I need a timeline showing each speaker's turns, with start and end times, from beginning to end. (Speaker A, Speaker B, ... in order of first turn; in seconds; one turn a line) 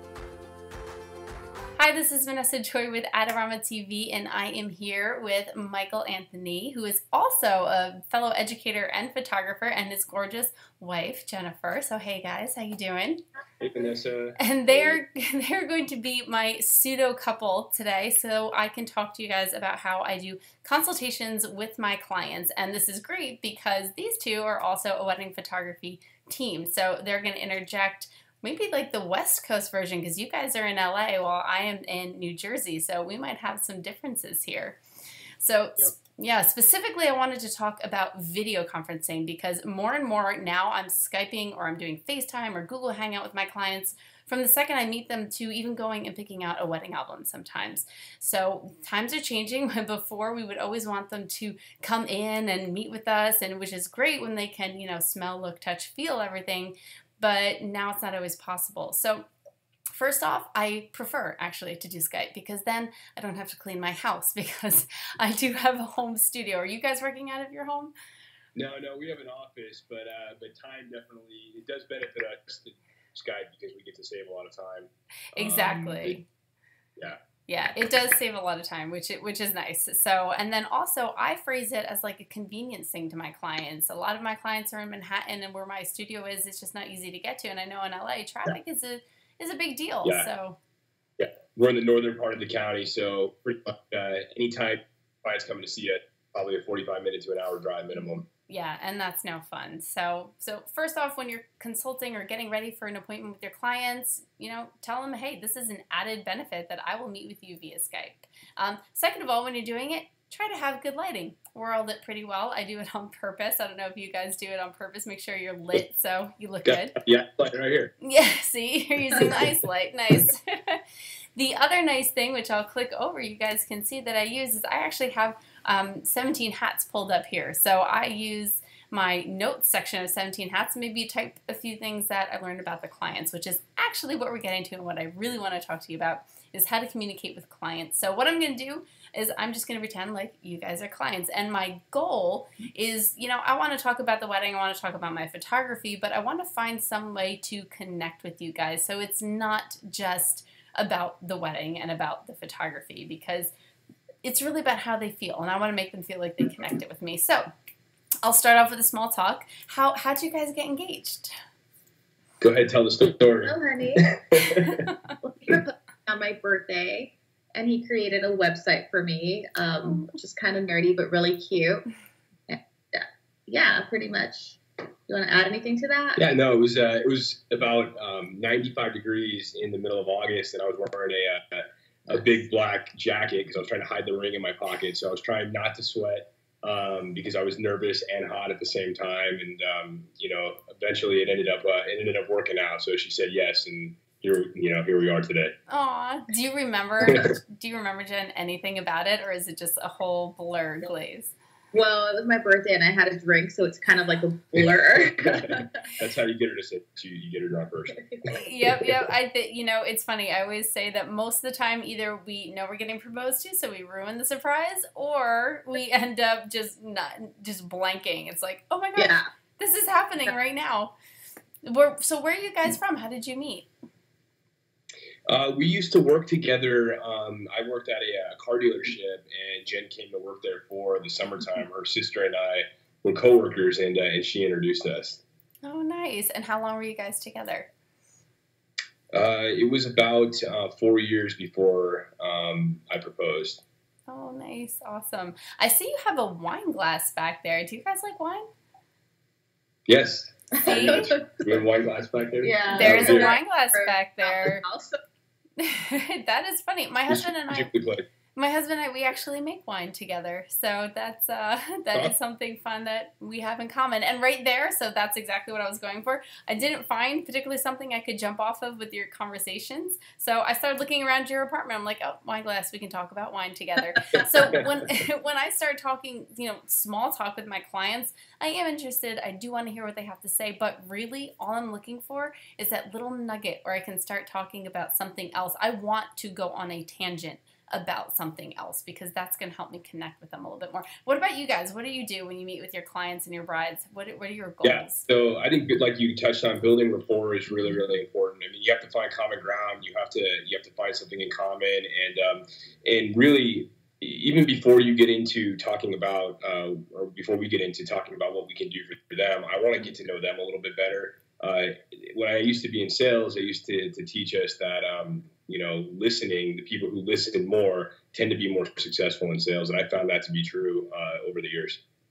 Speaker A: 1.8-13.2
Speaker B: 13.6-15.0
Speaker A: 14.4-34.8
Speaker A: 35.4-59.2
Speaker A: 60.0-67.9
Speaker B: 68.5-76.2
Speaker A: 75.3-76.3
Speaker A: 77.5-90.6
Speaker B: 90.0-90.3
Speaker B: 91.2-98.3
Speaker A: 98.0-117.0
Speaker B: 116.7-117.9
Speaker A: 118.0-120.8
Speaker B: 119.2-119.5
Speaker A: 121.3-153.5
Speaker A: 154.2-157.5
Speaker A: 158.2-161.3
Speaker B: 162.4-164.9
Speaker C: 163.4-164.4
Speaker C: 165.2-171.9
Speaker C: 172.5-176.2
Speaker B: 176.2-195.5
Speaker A: 195.7-201.3
Speaker C: 201.7-205.7
Speaker B: 205.2-208.4
Speaker A: 208.3-220.9
Speaker C: 218.9-219.2
Speaker A: 221.6-223.7
Speaker B: 225.3-235.2
Speaker A: 235.6-237.7
Speaker B: 239.1-243.6
Speaker A: 244.1-248.5
Speaker B: 249.9-253.4
Speaker C: 250.6-251.6
Speaker A: 250.6-251.1
Speaker C: 252.4-255.0
Speaker A: 252.7-254.6
Speaker A: 255.6-257.7
Speaker B: 257.1-258.1
Speaker A: 258.3-295.1
Speaker B: 274.4-274.6
Speaker B: 294.6-321.8